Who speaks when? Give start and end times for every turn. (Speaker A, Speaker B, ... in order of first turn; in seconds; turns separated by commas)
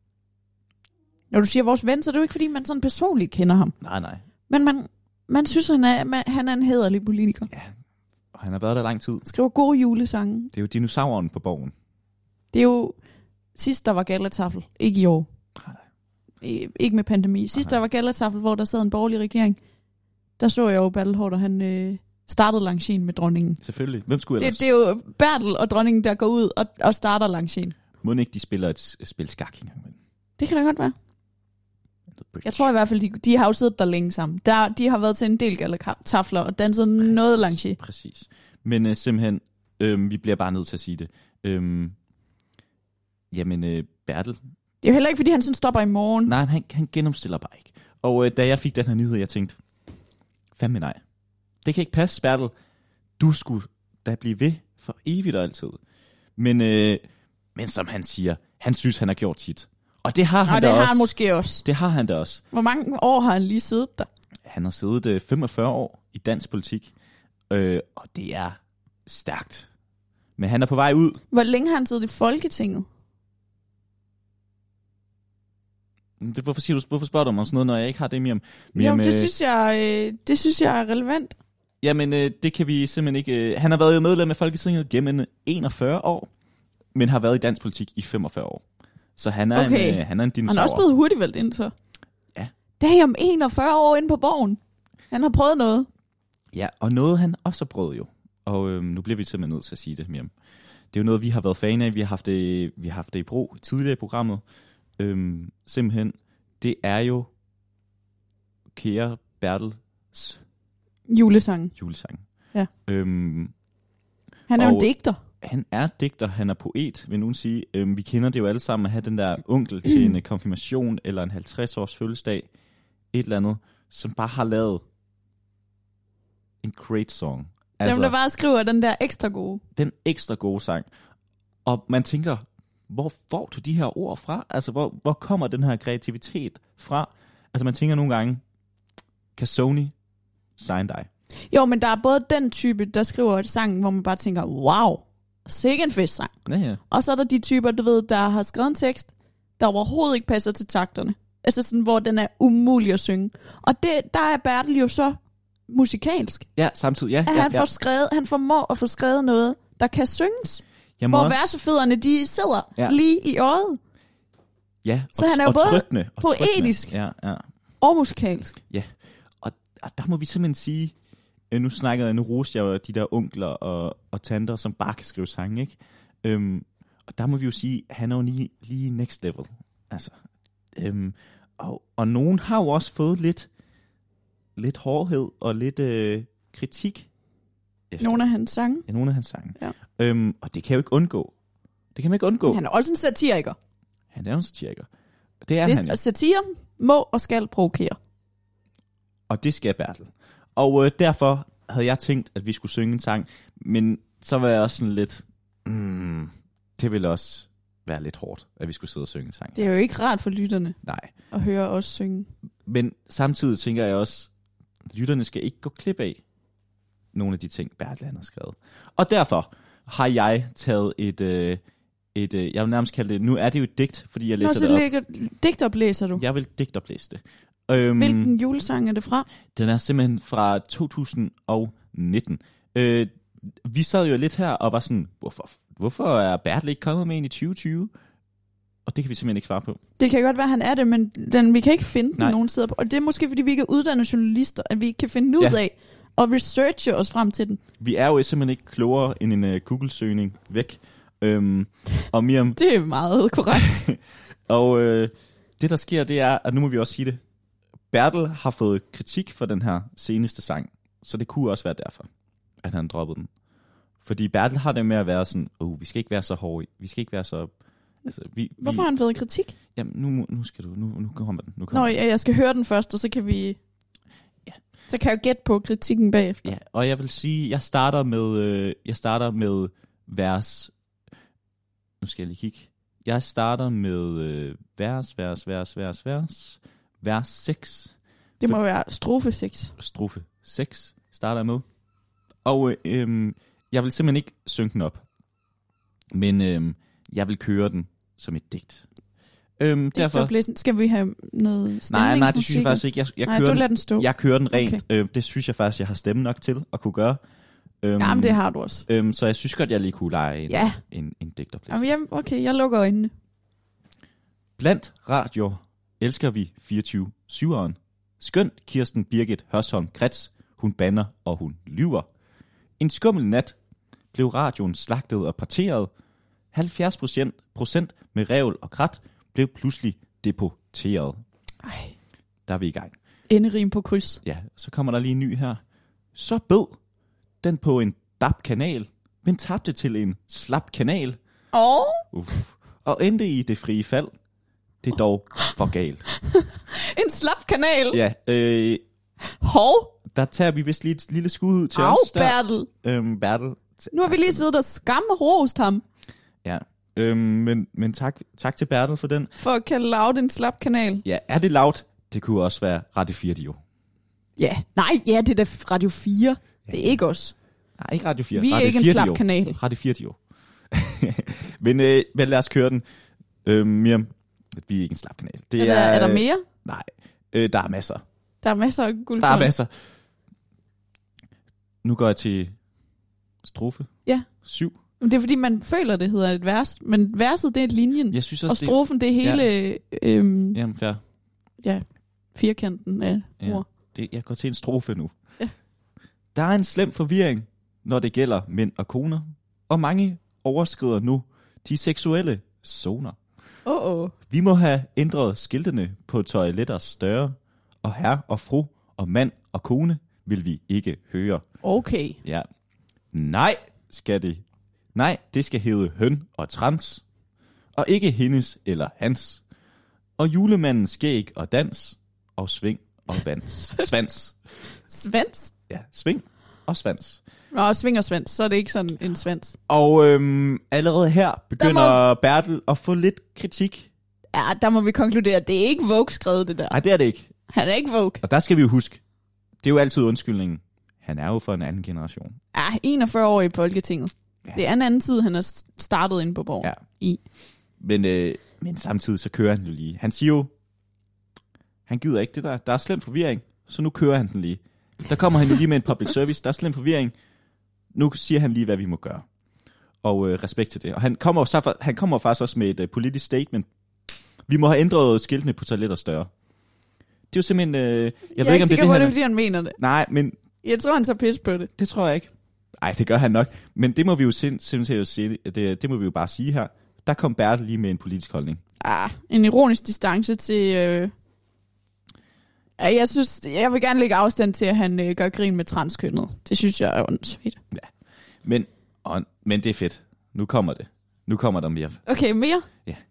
Speaker A: 1.3-3.7, Speaker B: 3.8-4.2, Speaker A: 4.5-7.5, Speaker B: 8.3-9.2, Speaker A: 9.2-10.5, Speaker B: 10.5-11.7, Speaker A: 12.5-13.0, Speaker A: 13.6-15.3, Speaker B: 15.6-15.8, Speaker A: 16.4-19.6, Speaker A: 20.4-23.6, Speaker B: 23.6-24.6, Speaker A: 24.4-27.8, Speaker B: 28.0-30.0, Speaker A: 30.4-30.9, Speaker B: 32.2-32.7, Speaker A: 32.4-37.8, Speaker B: 37.0-42.0, Speaker B: 43.3-44.4, Speaker A: 44.8-46.3, Speaker B: 46.3-49.6, Speaker B: 50.6-51.0, Speaker B: 51.6-52.5, Speaker B: 53.2-55.8, Speaker B: 56.4-57.0, Speaker B: 57.5-61.1, Speaker A: 60.4-61.6, Speaker B: 61.6-62.4, Speaker A: 62.5-64.1, Speaker B: 64.5-66.9, Speaker B: 67.5-69.7, Speaker B: 70.4-71.2, Speaker A: 71.3-72.9, Speaker B: 76.2-79.3, Speaker A: 78.7-81.4, Speaker B: 81.8-86.3, Speaker B: 86.9-88.6, Speaker B: 89.2-90.8, Speaker A: 89.5-91.7, Speaker A: 92.8-94.6, Speaker A: 95.1-95.9, Speaker B: 96.5-100.3, Speaker B: 100.9-104.4, Speaker B: 105.0-107.3, Speaker B: 108.7-110.4, Speaker A: 111.1-111.7, Speaker B: 111.8-112.2, Speaker B: 112.9-113.5, Speaker A: 114.5-115.2, Speaker B: 114.6-114.9, Speaker B: 115.4-122.5, Speaker B: 123.1-124.8, Speaker B: 126.6-128.1, Speaker A: 127.8-129.6, Speaker B: 129.8-130.9, Speaker B: 131.6-138.4, Speaker B: 139.4-139.9, Speaker B: 140.6-141.1, Speaker A: 141.5-146.3, Speaker B: 146.4-146.8, Speaker A: 146.9-156.5, Speaker B: 156.6-157.7, Speaker A: 157.2-163.8, Speaker B: 161.0-161.6, Speaker B: 164.8-167.4, Speaker A: 165.2-166.9, Speaker A: 167.8-168.6, Speaker B: 169.4-170.9, Speaker B: 171.5-180.1, Speaker B: 180.7-183.5, Speaker B: 184.6-187.1, Speaker B: 187.9-188.2, Speaker A: 188.0-188.9, Speaker B: 188.9-191.3, Speaker B: 191.9-192.6, Speaker A: 192.5-193.6, Speaker B: 194.1-194.9, Speaker B: 195.4-196.0, Speaker A: 195.6-198.0, Speaker B: 199.3-209.6, Speaker A: 209.5-210.8, Speaker B: 210.8-211.1, Speaker A: 211.3-212.3, Speaker B: 212.7-214.3, Speaker B: 214.9-216.2, Speaker B: 217.1-221.6, Speaker B: 222.1-224.8, Speaker A: 224.4-226.2, Speaker B: 226.2-228.3, Speaker A: 228.0-229.3, Speaker B: 229.5-233.1, Speaker B: 233.6-237.9, Speaker B: 238.9-239.8, Speaker A: 240.0-247.6, Speaker B: 247.8-252.6, Speaker A: 252.6-253.9, Speaker B: 253.6-253.9, Speaker B: 254.5-257.2, Speaker B: 257.9-262.1, Speaker B: 262.6-263.3, Speaker B: 264.0-267.5, Speaker B: 268.1-268.9, Speaker A: 268.6-269.5, Speaker B: 269.7-271.9, Speaker A: 271.7-273.6, Speaker A: 274.9-276.5, Speaker B: 276.4-280.7, Speaker B: 282.0-287.9, Speaker A: 288.4-289.7, Speaker B: 289.8-291.6, Speaker B: 292.4-295.0, Speaker B: 296.1-298.8, Speaker B: 299.6-300.3, Speaker A: 299.9-304.8, Speaker B: 301.9-307.2, Speaker B: 307.8-311.9, Speaker A: 308.0-308.9, Speaker A: 310.5-310.8, Speaker A: 311.7-313.1, Speaker B: 314.6-322.1, Speaker B: 322.8-323.6, Speaker B: 324.1-325.9, Speaker B: 326.5-331.2, Speaker A: 331.6-331.9, Speaker B: 332.5-332.9, Speaker A: 333.3-334.2, Speaker B: 334.2-335.6, Speaker B: 336.1-336.8, Speaker B: 337.4-341.2, Speaker A: 341.5-342.1, Speaker B: 342.1-344.1, Speaker B: 344.8-346.1, Speaker A: 346.2-348.0, Speaker B: 347.9-348.8, Speaker A: 349.2-349.9, Speaker B: 350.1-354.4, Speaker A: 351.7-352.7, Speaker A: 353.9-355.8, Speaker B: 356.4-359.3, Speaker A: 359.4-361.0, Speaker B: 361.1-363.6, Speaker A: 364.4-367.3, Speaker B: 366.7-366.9, Speaker B: 367.8-370.2, Speaker A: 368.3-369.6, Speaker B: 370.7-372.8, Speaker B: 373.4-378.0, Speaker A: 375.6-376.4, Speaker A: 378.4-379.5, Speaker B: 379.2-379.7, Speaker B: 381.8-382.5, Speaker B: 383.4-383.9, Speaker B: 384.4-384.7, Speaker A: 385.0-390.6, Speaker B: 388.1-389.5, Speaker B: 390.5-391.0, Speaker A: 392.3-393.6, Speaker B: 393.4-395.1, Speaker B: 396.3-403.2, Speaker A: 403.6-404.1, Speaker B: 404.3-411.4, Speaker A: 411.6-412.2, Speaker B: 413.1-414.4, Speaker B: 414.9-417.0, Speaker B: 417.7-419.4, Speaker B: 420.2-424.4, Speaker A: 424.9-425.5, Speaker B: 425.7-427.2, Speaker A: 427.5-429.6, Speaker B: 429.7-433.9, Speaker A: 431.6-432.0, Speaker A: 434.3-436.8, Speaker B: 436.7-437.3, Speaker A: 437.5-438.2, Speaker B: 438.2-439.0, Speaker B: 439.6-442.3, Speaker A: 442.5-447.2, Speaker B: 447.8-450.5, Speaker B: 451.9-457.1, Speaker B: 457.9-459.2, Speaker B: 460.0-463.7, Speaker B: 464.5-466.3, Speaker B: 467.3-469.1, Speaker A: 468.3-469.8, Speaker B: 469.8-470.4, Speaker A: 470.6-471.7, Speaker B: 471.8-478.6, Speaker A: 478.8-481.1, Speaker A: 482.8-487.6, Speaker B: 488.4-492.0, Speaker A: 492.1-492.7